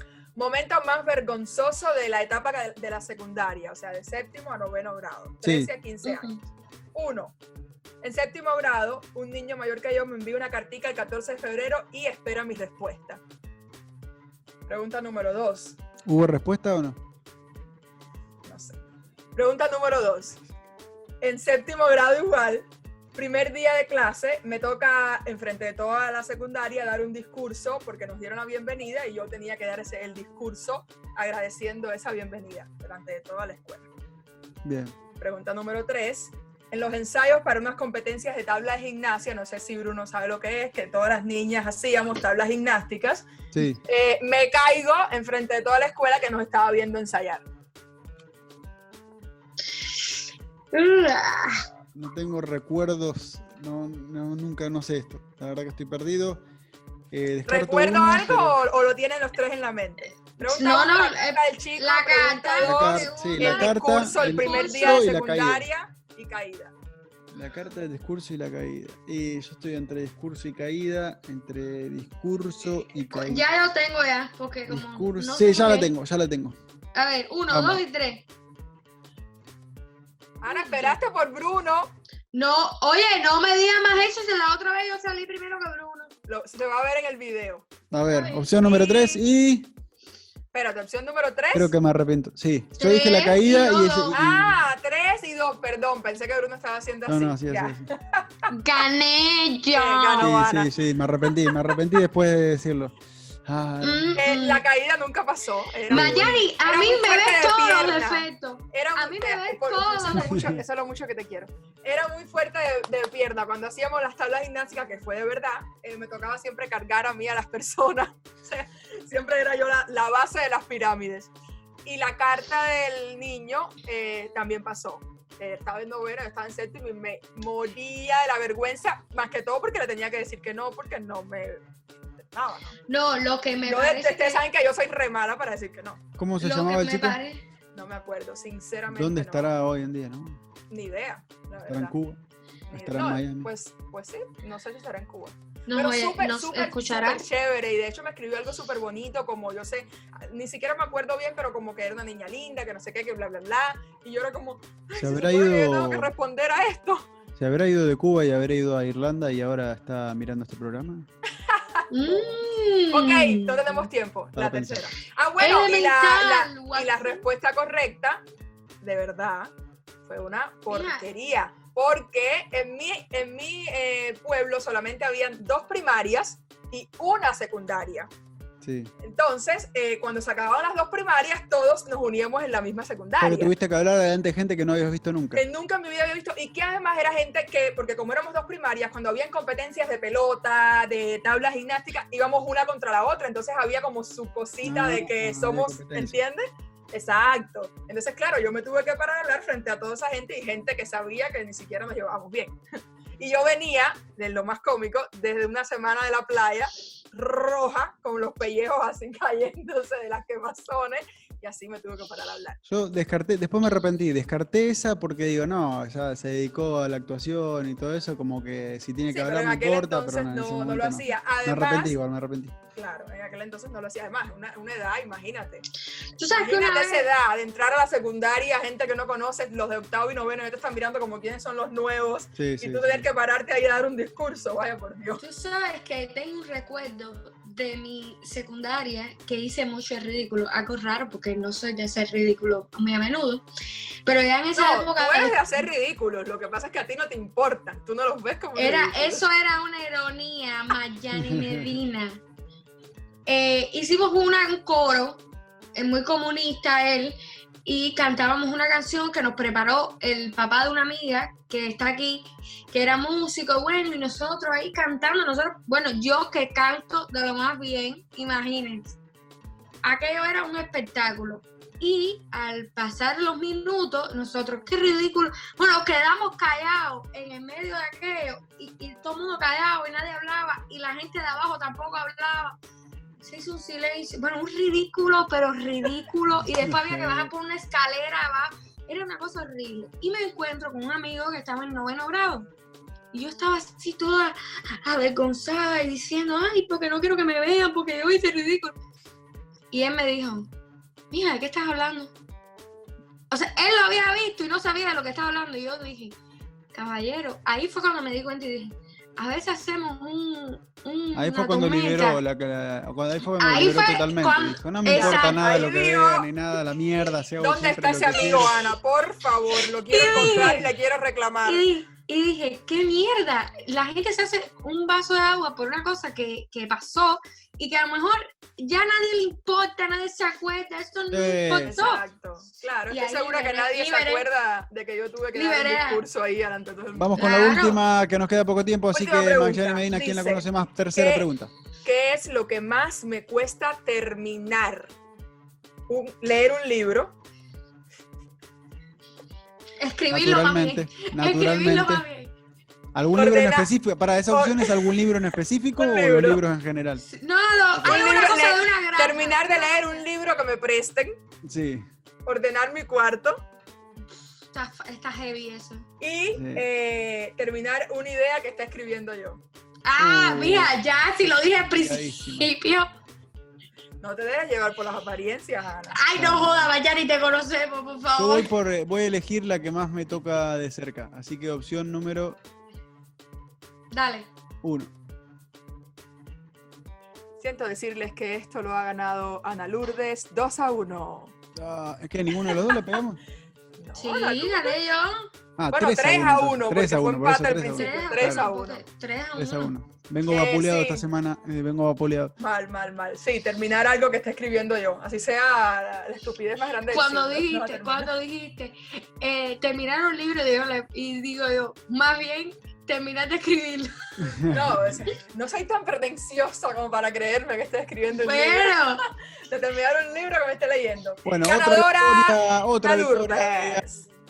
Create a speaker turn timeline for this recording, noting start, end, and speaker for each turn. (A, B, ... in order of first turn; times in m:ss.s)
0:00.4-0:06.3 A
0:05.4-0:05.7 B
0:06.0-0:06.4 C
0:06.9-0:07.3 A
0:08.0-0:13.2 A
0:14.7-0:15.8 A
0:16.0-0:17.0 B
0:18.4-0:18.8 A
0:19.4-0:20.4 A
0:21.2-0:33.9 A
0:34.6-0:35.0 B
0:35.2-0:43.3 A
0:43.5-0:43.8 B
0:43.8-0:47.4 A
0:49.9-0:50.2 C
0:50.7-0:51.6 C
0:51.9-0:56.4 B
0:57.1-0:58.6 B
0:57.5-1:06.7 A
1:00.4-1:05.1 C
1:02.6-1:05.6 B
1:07.3-1:13.4 B
1:13.1-1:15.9 C
1:14.7-1:16.6 B
1:16.9-1:18.2 C
1:17.5-1:17.8 B
1:20.4-1:21.9 A
1:20.5-1:21.0 C
1:22.3-1:26.1 C
1:26.3-1:27.7 A
1:27.9-1:29.7 B
1:28.1-1:29.2 C
1:30.5-1:31.7 A
1:31.5-1:34.6 B
1:32.8-1:34.2 C
1:34.1-1:38.2 A
1:37.1-1:37.9 B
1:38.5-1:40.4 C
1:39.7-1:40.7 A
1:40.2-1:44.2 B
1:41.4-1:41.8 A
1:43.8-1:44.6 C
1:44.2-2:01.3 A
1:45.9-1:46.4 B
1:45.9-1:50.5 C
1:50.1-1:50.6 B
2:01.8-2:11.6 A
2:12.2-2:12.8 A
2:12.9-2:14.4 C
2:13.7-2:16.0 A
2:16.2-2:17.2 B
2:16.4-2:17.4 C
2:17.8-2:19.5 A
2:18.9-2:20.4 B
2:20.7-2:21.9 A
2:21.7-2:22.2 B
2:22.7-2:37.1 A
2:22.7-2:23.5 B
2:25.7-2:27.3 C
2:35.0-2:36.1 B
2:37.4-2:41.1 B
2:41.5-2:42.4 A
2:41.9-2:43.6 C
2:42.9-2:48.2 A
2:44.4-2:44.8 B
2:45.4-2:47.2 C
2:48.8-2:49.5 A
2:50.0-2:58.1 A
2:50.7-2:51.1 C
2:58.6-2:58.9 B
2:59.0-3:03.5 A
3:03.2-3:05.4 B
3:05.4-3:22.6 A
3:14.6-3:16.2 B
3:23.2-3:32.6 A
3:32.7-3:42.5 B
3:39.1-3:41.9 A
3:42.8-3:45.6 A
3:46.2-3:47.1 C
3:46.3-3:55.2 A
3:52.4-3:53.1 B
3:55.2-4:03.5 C
4:04.1-4:05.7 C
4:04.5-4:09.3 A
4:08.6-4:12.2 C
4:11.1-4:11.8 B
4:13.3-4:15.2 C
4:15.8-4:29.0 C
4:29.8-4:42.6 C
4:43.2-4:52.5 C
4:46.6-4:47.3 B
4:53.1-4:58.8 C
4:59.7-5:00.5 C
5:01.1-5:02.1 C
5:03.3-5:06.2 C
5:06.7-5:12.2 C
5:11.2-5:18.6 B
5:13.4-5:15.6 C
5:14.9-5:16.3 A
5:17.4-5:21.7 A
5:19.9-5:20.7 C
5:20.0-5:20.7 B
5:21.4-5:32.0 C
5:31.1-5:31.9 B
5:31.7-5:37.2 A
5:32.9-5:34.3 C
5:35.3-5:36.0 C
5:37.0-5:41.5 B
5:37.2-5:37.8 C
5:38.9-5:41.3 A
5:41.8-5:44.9 A
5:45.9-5:47.2 A
5:49.8-5:52.3 C
5:50.1-5:52.0 B
5:53.0-5:57.0 B
5:53.1-5:53.7 A
5:54.3-5:55.1 A
5:55.8-5:56.4 A
5:57.0-6:00.0 C
5:57.8-6:01.2 A
6:01.4-6:01.9 B
6:02.3-6:03.4 A
6:04.5-6:05.9 C
6:06.0-6:09.4 A
6:06.4-6:06.6 B
6:09.8-6:12.9 C
6:10.0-6:12.5 B
6:14.0-6:16.0 A
6:15.9-6:18.5 C
6:16.2-6:16.7 B
6:18.2-6:22.4 B
6:23.9-6:24.3 C
6:24.6-6:24.9 B
6:27.4-6:31.3 A
6:31.6-6:33.2 B
6:32.4-6:33.0 A
6:33.8-6:34.8 A
6:34.0-6:35.3 C
6:35.6-6:38.5 B
6:35.7-6:38.8 A
6:37.7-6:39.7 C
6:39.4-6:42.3 B
6:40.3-6:41.0 A
6:42.4-6:48.1 A
6:46.9-6:54.4 C
6:54.3-6:55.1 B
6:54.5-6:58.8 A
6:58.1-6:59.0 C
6:59.5-7:04.0 A
7:01.3-7:03.8 B